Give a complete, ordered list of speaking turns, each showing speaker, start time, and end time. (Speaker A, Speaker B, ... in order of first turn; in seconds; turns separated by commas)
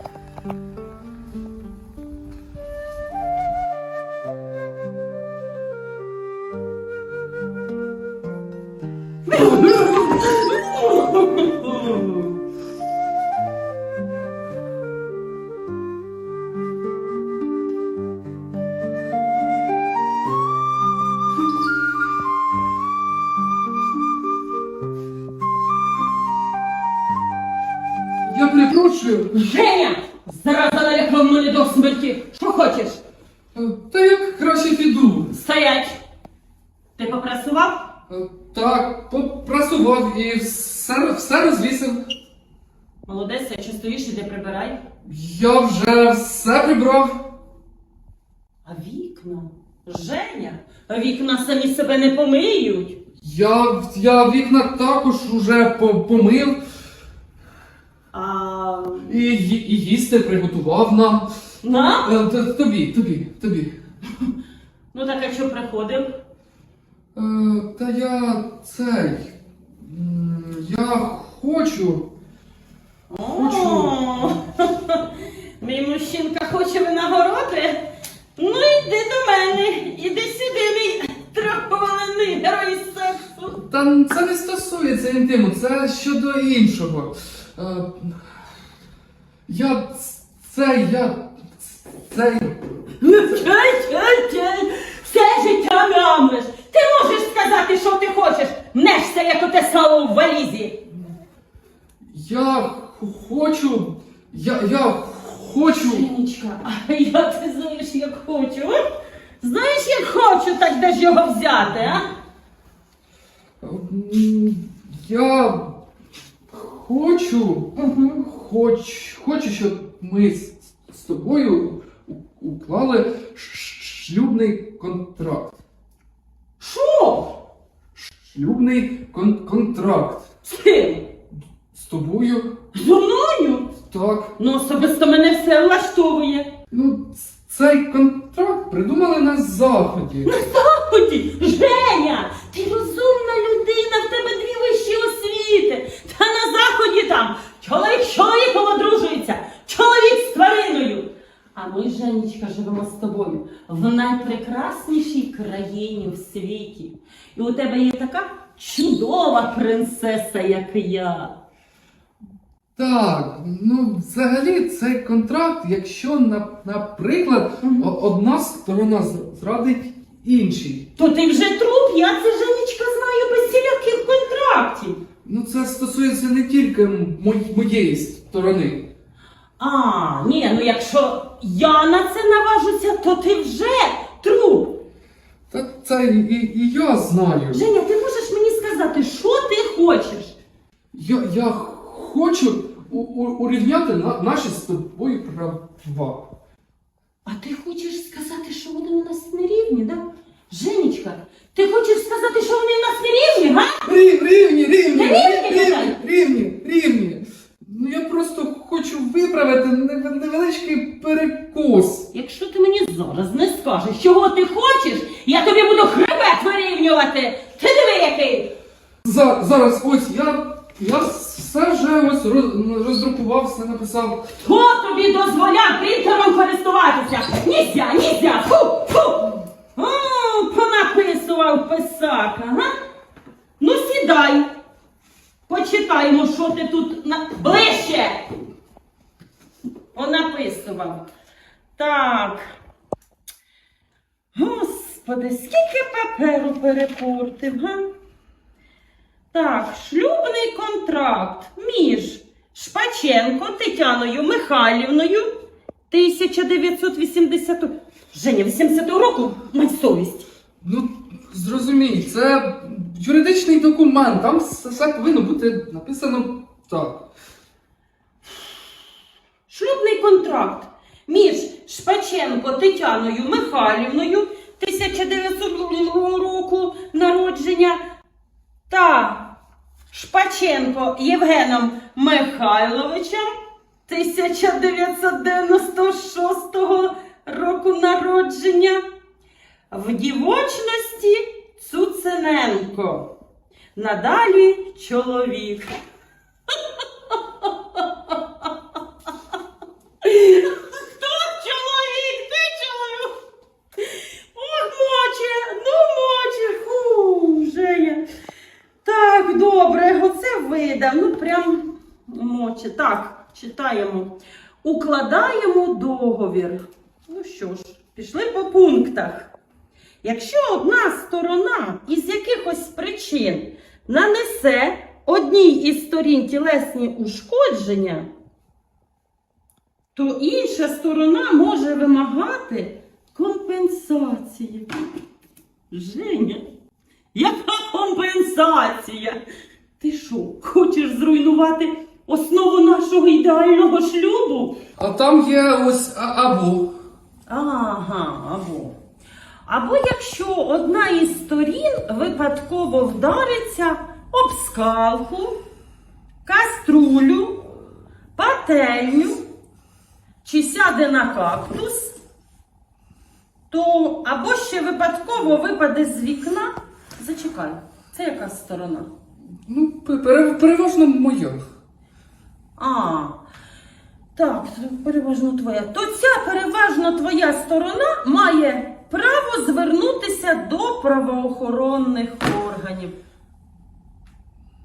Speaker A: 9.2-12.3, Speaker B: 28.2-29.4, Speaker A: 29.3-33.0, Speaker B: 33.5-35.3, Speaker A: 35.3-36.0, Speaker A: 37.0-37.9, Speaker B: 38.1-42.1, Speaker A: 43.0-44.8, Speaker B: 45.0-47.3, Speaker A: 48.6-53.0, Speaker B: 53.2-56.6, Speaker A: 58.1-59.1, Speaker B: 59.0-61.3, Speaker A: 61.6-62.1, Speaker B: 62.0-63.7, Speaker A: 64.9-66.1, Speaker B: 67.1-72.1, Speaker A: 73.1-77.8, Speaker B: 73.3-74.0, Speaker A: 78.3-83.6, Speaker B: 83.6-88.2, Speaker B: 89.5-92.6, Speaker A: 93.0-100.8, Speaker B: 102.1-106.1, Speaker A: 105.7-108.8, Speaker A: 109.4-112.0, Speaker B: 113.6-115.8, Speaker B: 116.5-125.6, Speaker A: 117.7-118.2, Speaker A: 126.6-127.3, Speaker B: 128.2-130.2, Speaker A: 130.4-131.1, Speaker B: 131.7-132.6, Speaker A: 132.7-133.7, Speaker B: 133.9-134.3, Speaker A: 134.4-136.5, Speaker B: 136.7-140.3, Speaker A: 140.2-161.3, Speaker B: 162.8-170.9, Speaker A: 167.6-167.9, Speaker A: 170.9-175.0, Speaker B: 175.2-178.9, Speaker A: 179.6-184.8, Speaker B: 185.5-187.7, Speaker A: 187.5-190.4, Speaker B: 190.9-196.3, Speaker A: 197.2-203.9, Speaker B: 203.8-212.1, Speaker A: 204.9-206.0, Speaker A: 212.1-218.5, Speaker B: 219.0-224.3, Speaker A: 224.3-232.7, Speaker A: 233.6-234.5, Speaker A: 235.5-238.3, Speaker A: 239.9-241.1, Speaker A: 241.8-242.5, Speaker A: 244.3-247.8, Speaker A: 249.3-255.3, Speaker A: 255.9-260.2, Speaker B: 260.6-267.1, Speaker A: 269.5-277.8, Speaker A: 278.7-279.3, Speaker A: 279.9-283.3, Speaker A: 283.9-288.8, Speaker A: 289.7-293.1, Speaker A: 293.7-295.7, Speaker A: 296.8-298.2, Speaker A: 300.0-303.1, Speaker A: 303.8-308.0, Speaker A: 308.8-319.3, Speaker A: 320.0-328.1, Speaker A: 329.9-334.7, Speaker A: 335.7-336.4, Speaker A: 337.1-339.2, Speaker A: 339.8-344.6, Speaker B: 344.8-346.7, Speaker A: 347.3-348.8, Speaker A: 349.4-355.4, Speaker A: 356.2-357.4, Speaker A: 358.1-359.2, Speaker A: 360.2-361.9, Speaker A: 363.5-368.9, Speaker B: 369.5-371.4, Speaker A: 372.6-373.2, Speaker A: 374.1-382.9